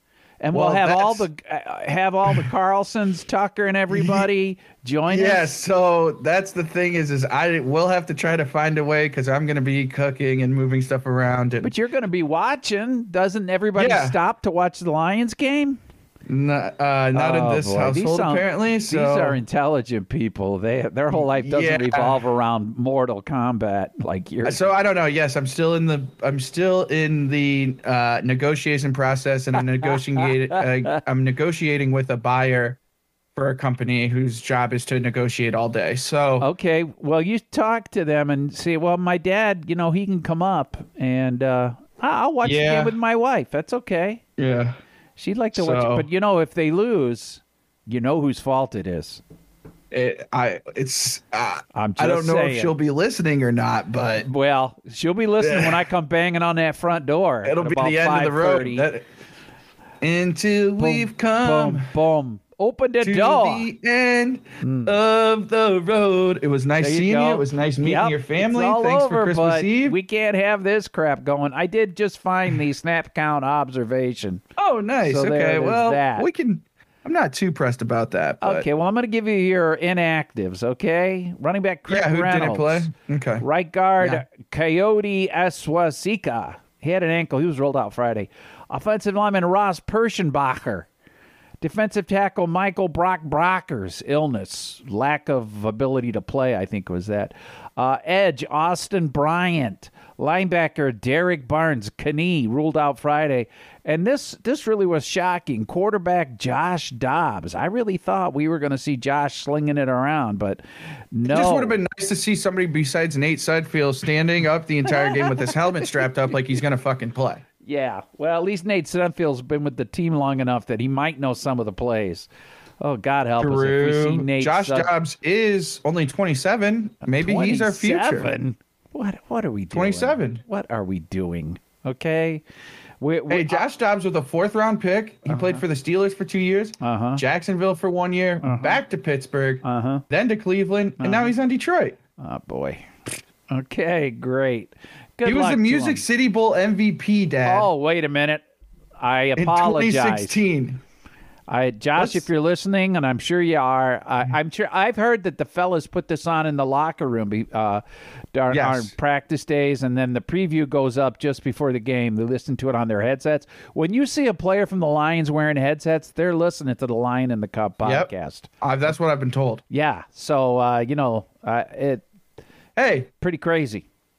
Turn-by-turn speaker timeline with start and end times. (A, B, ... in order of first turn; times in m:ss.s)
0:00.4-0:05.5 A
0:00.5-0:01.3 B
0:03.9-0:04.3 B
0:05.1-0:11.7 B
0:11.6-0:15.8 A
0:13.8-0:14.2 B
0:16.3-0:19.4 B
0:17.1-0:24.6 A
0:21.1-0:22.2 B
0:24.4-0:32.8 B
0:29.8-0:31.0 A
0:33.4-0:36.5 B
0:36.4-0:44.2 A
0:42.4-0:42.9 B
0:44.4-0:44.8 B
0:45.2-0:49.2 A
0:45.5-0:46.1 B
0:49.9-0:54.3 B
0:51.7-0:52.7 A
0:54.2-0:58.9 A
0:55.4-0:55.8 B
0:57.4-0:59.0 B
1:00.0-1:01.9 B
1:00.8-1:03.7 A
1:03.0-1:10.0 B
1:04.6-1:04.9 A
1:06.8-1:14.4 A
1:14.6-1:18.6 B
1:15.0-1:16.3 A
1:18.4-1:30.9 A
1:21.9-1:23.4 B
1:31.6-1:50.6 A
1:51.1-1:51.8 A
1:51.3-1:57.4 B
1:54.9-1:55.9 A
1:57.6-2:02.3 A
2:02.8-2:04.9 A
2:03.4-2:08.3 B
2:07.1-2:12.4 A
2:09.7-2:10.4 B
2:13.0-2:13.6 A
2:13.3-2:22.0 B
2:15.3-2:15.6 A
2:16.8-2:17.2 A
2:18.4-2:18.8 A
2:19.6-2:20.0 A
2:21.0-2:21.3 A
2:22.2-2:22.9 A
2:23.5-2:26.0 A
2:25.2-2:27.7 B
2:27.4-2:28.4 A
2:29.0-2:30.4 A
2:29.4-2:30.8 B
2:31.5-2:37.8 A
2:32.0-2:32.3 B
2:38.3-2:48.5 A
2:38.5-2:38.9 B
2:47.8-2:49.6 B
2:49.7-2:52.0 A
2:52.8-2:53.1 B
2:53.2-2:53.8 A